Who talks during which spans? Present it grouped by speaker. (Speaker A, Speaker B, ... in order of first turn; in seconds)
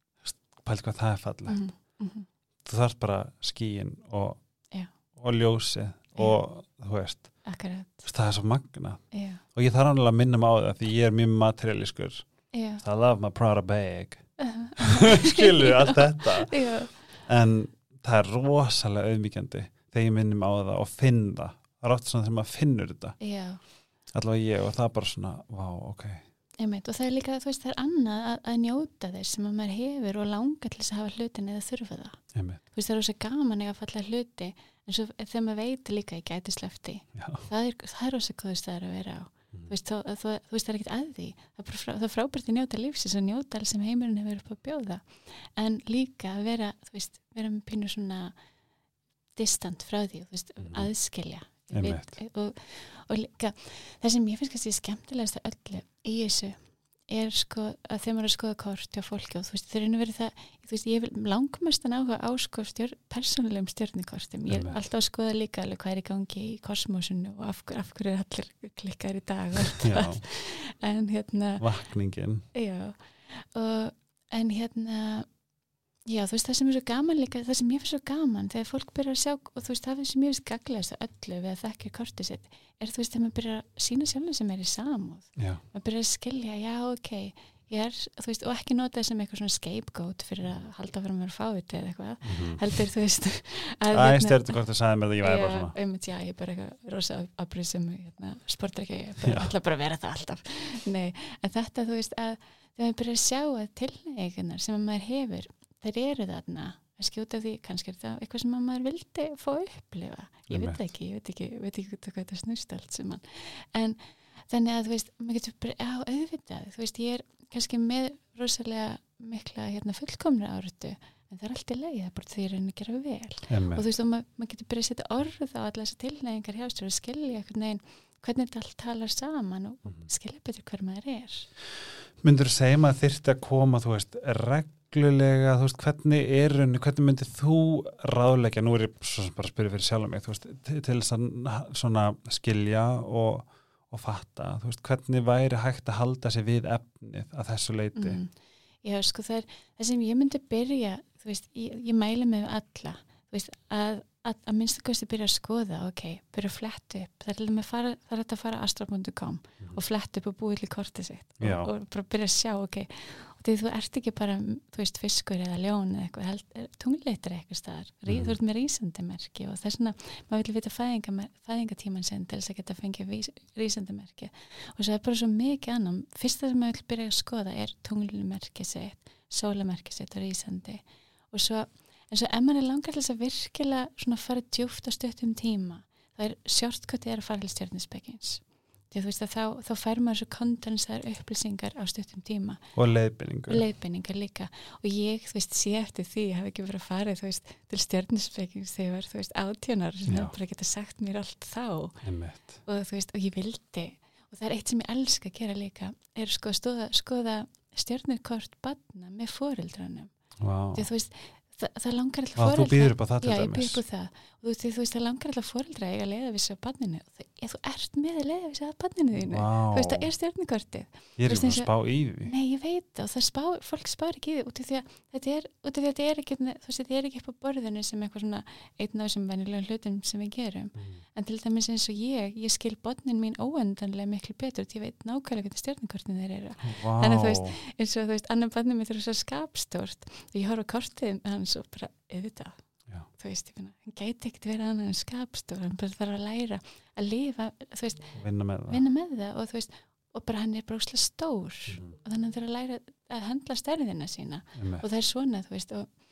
Speaker A: 0.2-1.6, 2.6-4.4, 5.2-7.3, 8.1-9.0, 9.6-12.3, 12.8-14.3, 14.8-16.6, 17.2-23.2, 24.1-26.2, 32.4-32.6, 37.2-37.5, 50.6-50.9, 51.7-52.1, 64.5-64.8, 69.8-70.2, 71.6-72.5, 85.4-85.6, 92.2-92.6, 93.9-95.7, 99.2-99.5, 110.5-110.8, 123.5-123.8, 132.2-148.2, 161.4-161.7, 168.1-168.4, 192.8-193.6, 200.1-200.3, 202.0-202.6, 210.4-210.9, 212.4-213.8, 219.2-220.1, 221.2-222.3, 230.8-231.0, 236.6-237.6, 248.2-248.8, 254.6-254.8
Speaker B: 1.5-2.3, 7.5-8.1, 9.1-9.4, 12.5-12.8, 14.4-17.0, 23.2-23.6, 26.6-48.3, 49.4-71.7, 72.5-75.3, 76.1-94.6, 95.2-131.5, 148.0-148.3, 148.8-192.7, 193.5-202.0, 202.7-210.1, 210.8-221.7, 222.2-242.6, 243.1-248.2, 248.7-255.9